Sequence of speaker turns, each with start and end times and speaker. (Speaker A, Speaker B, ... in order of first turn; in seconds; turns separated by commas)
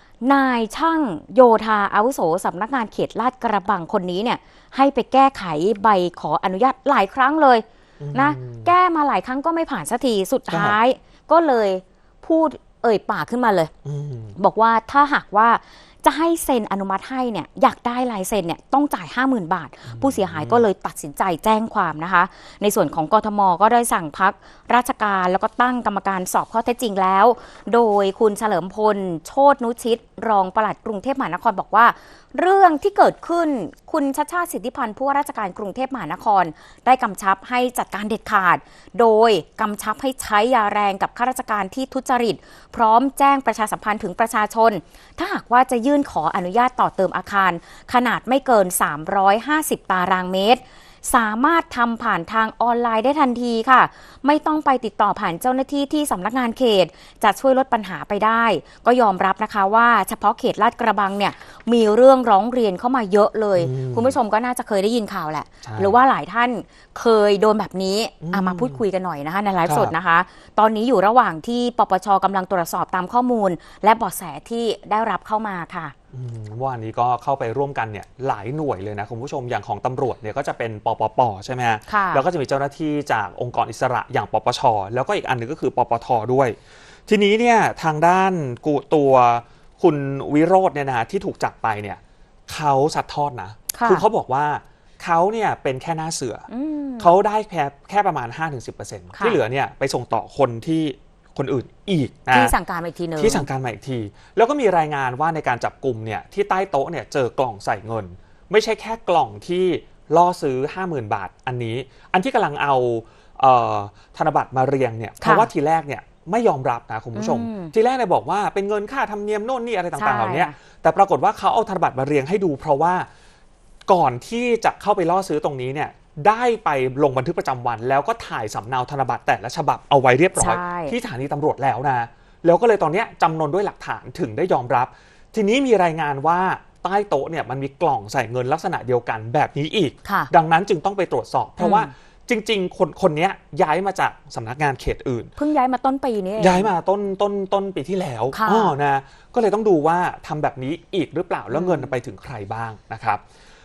Speaker A: 0.2-13.7, Speaker B: 8.0-8.7, Speaker B: 10.5-10.8, Speaker B: 13.8-14.4, Speaker A: 14.4-75.9, Speaker B: 19.9-20.6, Speaker B: 63.6-64.2, Speaker B: 65.6-66.0, Speaker B: 68.2-68.8, Speaker B: 69.7-69.9, Speaker B: 76.1-96.5, Speaker A: 81.9-82.2, Speaker A: 93.7-94.0, Speaker A: 96.5-97.2, Speaker B: 97.0-102.5, Speaker A: 99.2-99.4, Speaker A: 102.3-103.5, Speaker B: 103.2-123.1, Speaker A: 115.2-115.5, Speaker A: 117.2-117.7, Speaker A: 120.0-120.5, Speaker B: 123.9-145.3, Speaker A: 130.3-131.0, Speaker A: 140.1-140.3, Speaker A: 141.6-141.9, Speaker A: 145.4-146.7, Speaker B: 146.4-153.2, Speaker A: 148.3-148.7, Speaker A: 151.5-151.9